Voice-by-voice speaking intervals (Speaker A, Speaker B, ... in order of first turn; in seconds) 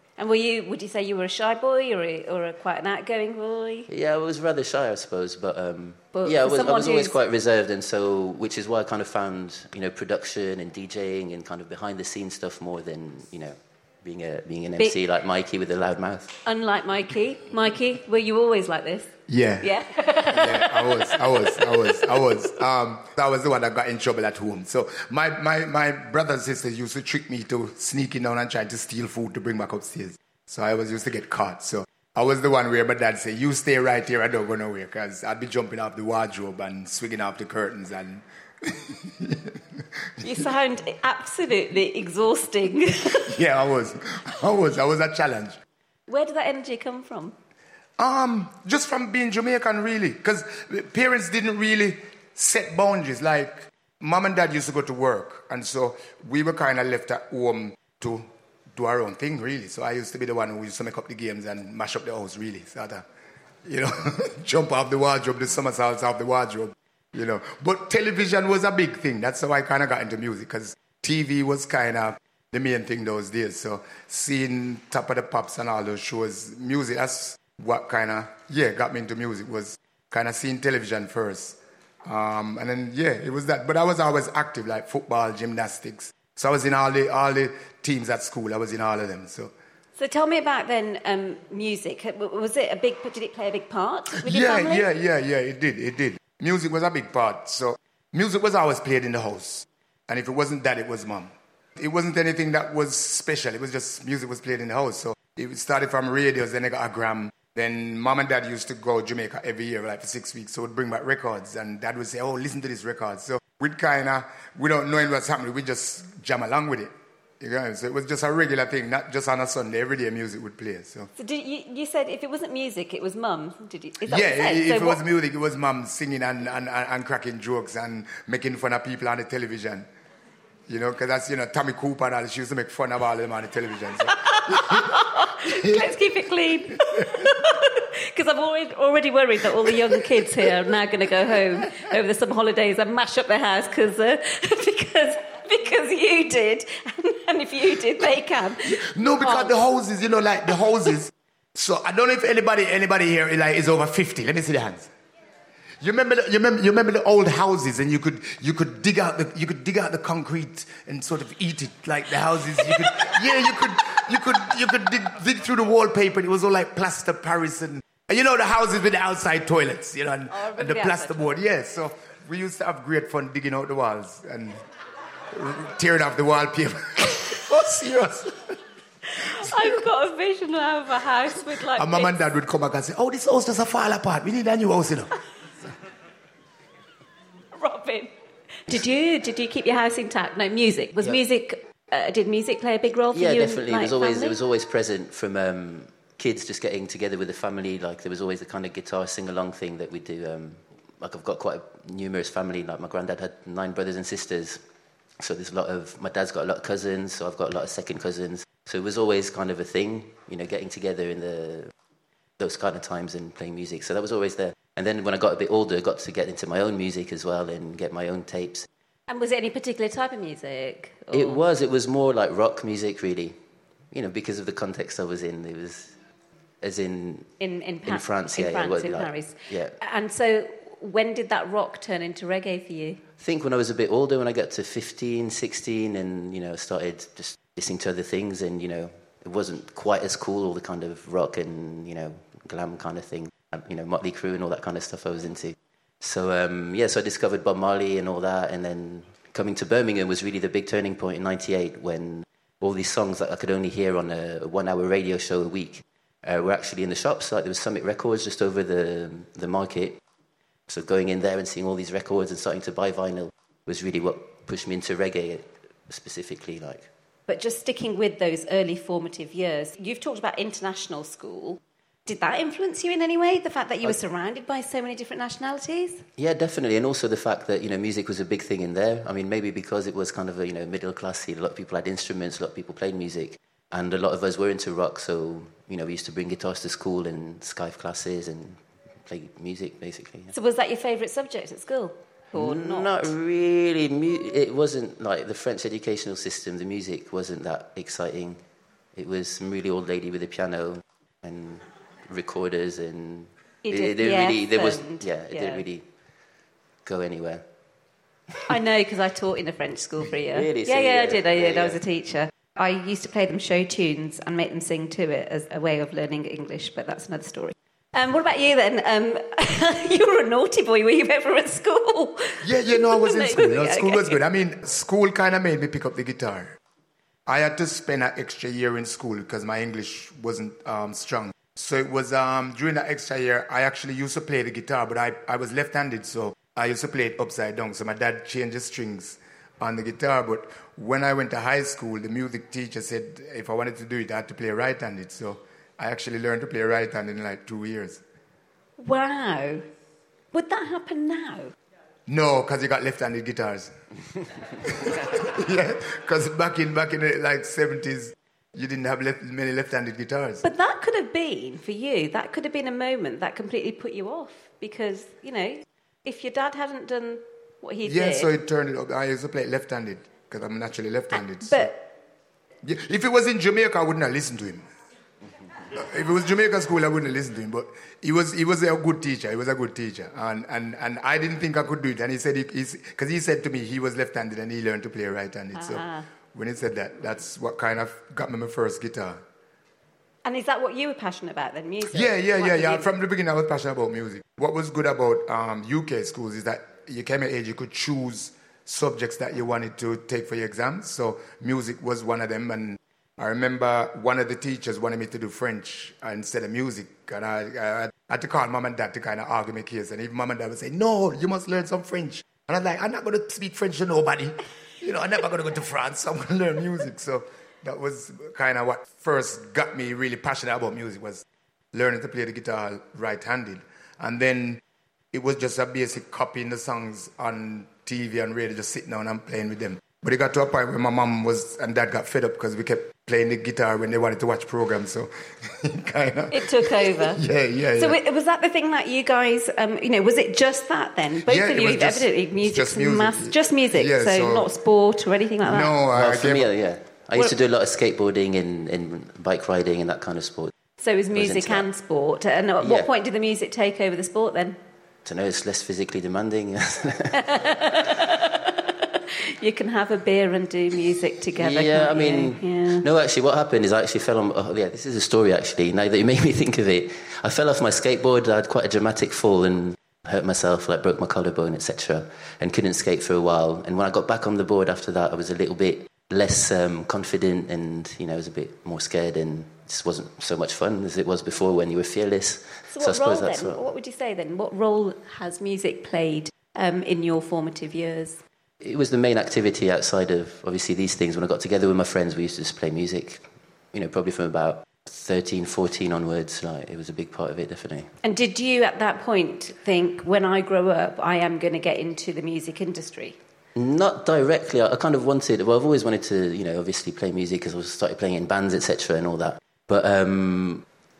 Speaker A: 0.2-3.9, 6.1-7.1, 16.5-22.4, 40.2-43.4, 46.1-47.4, 90.0-94.9, 121.2-125.0, 134.2-149.5, 170.3-171.4, 179.1-182.2, 187.6-188.1, 188.7-194.4, 219.1-221.4, 227.4-233.0, 267.3-276.1, 290.3-293.1, 303.6-305.6, 308.5-324.2, 348.8-349.6, 350.3-351.5, 360.4-368.3, 371.4-371.9, 385.6-386.1, 390.2-392.9, 436.3-437.2, 437.8-445.8, 450.8-454.6, 457.1-462.9, 482.7-488.2, 498.0-503.1
Speaker B: 3.9-16.4, 193.1-204.6, 205.2-211.7, 212.4-218.7, 221.1-223.4, 223.9-225.9, 226.6-227.3, 227.9-229.8, 233.2-260.0, 260.7-266.9, 276.2-290.3, 292.3-298.4, 298.9-305.9, 306.9-307.5, 310.3-311.8, 445.9-450.5, 451.1-451.6, 452.6-452.9, 455.1-457.4, 461.4-483.6, 488.6-497.9, 503.6-510.6
Speaker C: 19.3-19.7, 20.3-39.8, 43.2-45.6, 48.0-63.0, 63.6-89.5, 94.2-121.1, 124.1-129.9, 130.7-134.9, 135.5-135.8, 148.6-154.9, 155.8-174.6, 175.3-178.6, 181.8-185.2, 322.4-326.6, 327.3-348.0, 352.1-353.7, 354.6-360.4, 367.9-371.7, 372.6-374.7, 375.7-389.2, 391.9-424.6, 425.1-438.0, 441.2-444.5, 445.4-446.5